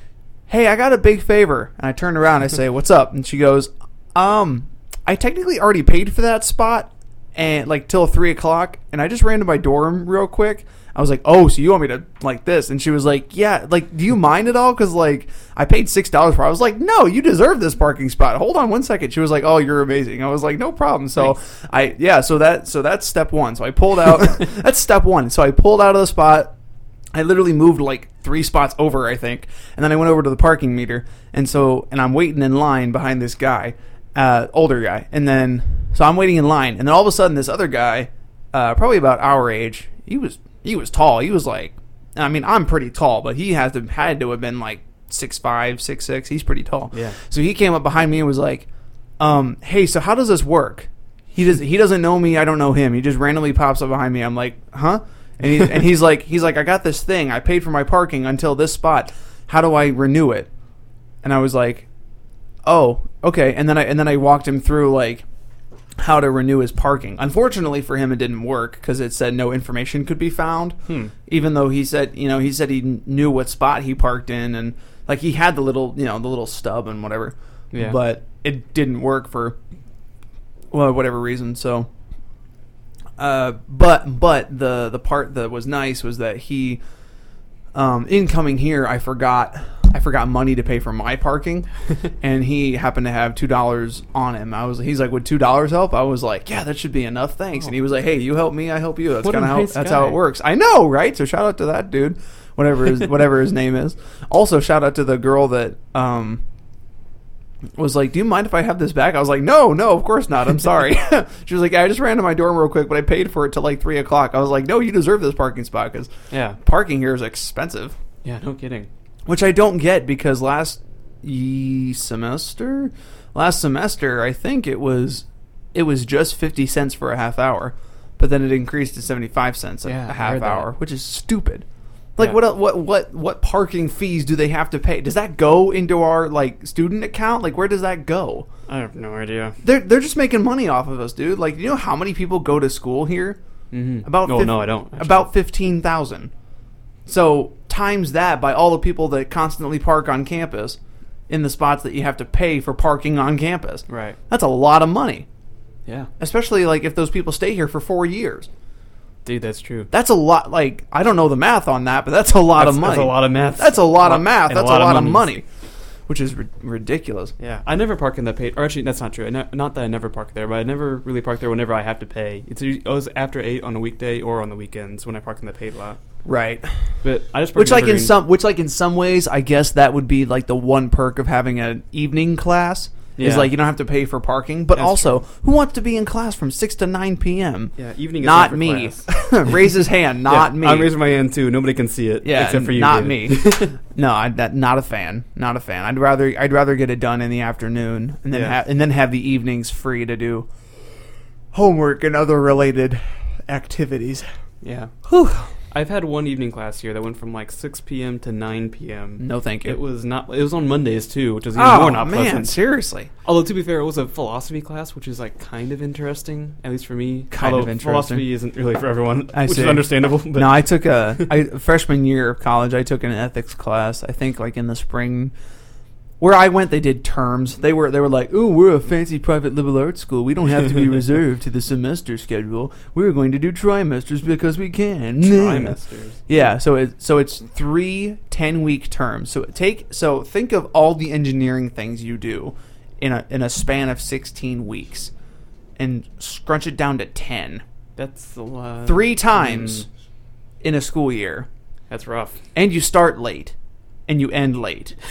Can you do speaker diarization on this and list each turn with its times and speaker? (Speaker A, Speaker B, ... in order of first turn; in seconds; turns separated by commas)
Speaker A: 0.5-26.5, Speaker A: 27.1-48.7, Speaker A: 49.2-60.5, Speaker A: 61.2-61.9, Speaker A: 62.7-65.2, Speaker A: 66.0-79.6, Speaker B: 77.7-78.0, Speaker A: 80.7-81.9, Speaker A: 83.2-86.8, Speaker A: 87.7-91.7, Speaker A: 92.2-106.4, Speaker B: 99.2-100.2, Speaker A: 107.8-118.0, Speaker B: 116.3-116.6, Speaker B: 118.2-118.9, Speaker A: 119.3-131.7, Speaker B: 129.8-130.7, Speaker A: 132.2-138.5, Speaker B: 138.7-139.6, Speaker A: 139.6-143.4, Speaker B: 143.7-145.3, Speaker A: 144.0-146.3, Speaker A: 147.1-155.3, Speaker B: 153.9-154.2, Speaker A: 156.2-158.5, Speaker B: 159.2-159.9, Speaker A: 159.9-165.5, Speaker B: 162.6-165.3, Speaker A: 166.1-167.3, Speaker B: 167.4-176.0, Speaker A: 176.2-176.9, Speaker B: 177.0-178.2, Speaker A: 177.6-190.9, Speaker B: 183.2-183.5, Speaker B: 184.8-185.2, Speaker B: 187.8-193.7, Speaker A: 192.2-200.5, Speaker B: 198.3-198.6, Speaker A: 201.5-204.3, Speaker B: 204.6-204.9, Speaker A: 205.1-205.5, Speaker B: 205.7-212.6, Speaker A: 209.2-209.8, Speaker A: 211.6-213.1, Speaker B: 213.2-220.7, Speaker A: 217.3-218.2, Speaker A: 219.3-225.3, Speaker A: 226.2-245.1, Speaker B: 235.2-236.3, Speaker A: 245.8-247.6, Speaker B: 248.0-249.9, Speaker A: 248.8-249.9, Speaker A: 250.6-251.5, Speaker B: 251.9-252.4, Speaker A: 252.6-253.5, Speaker A: 254.1-255.0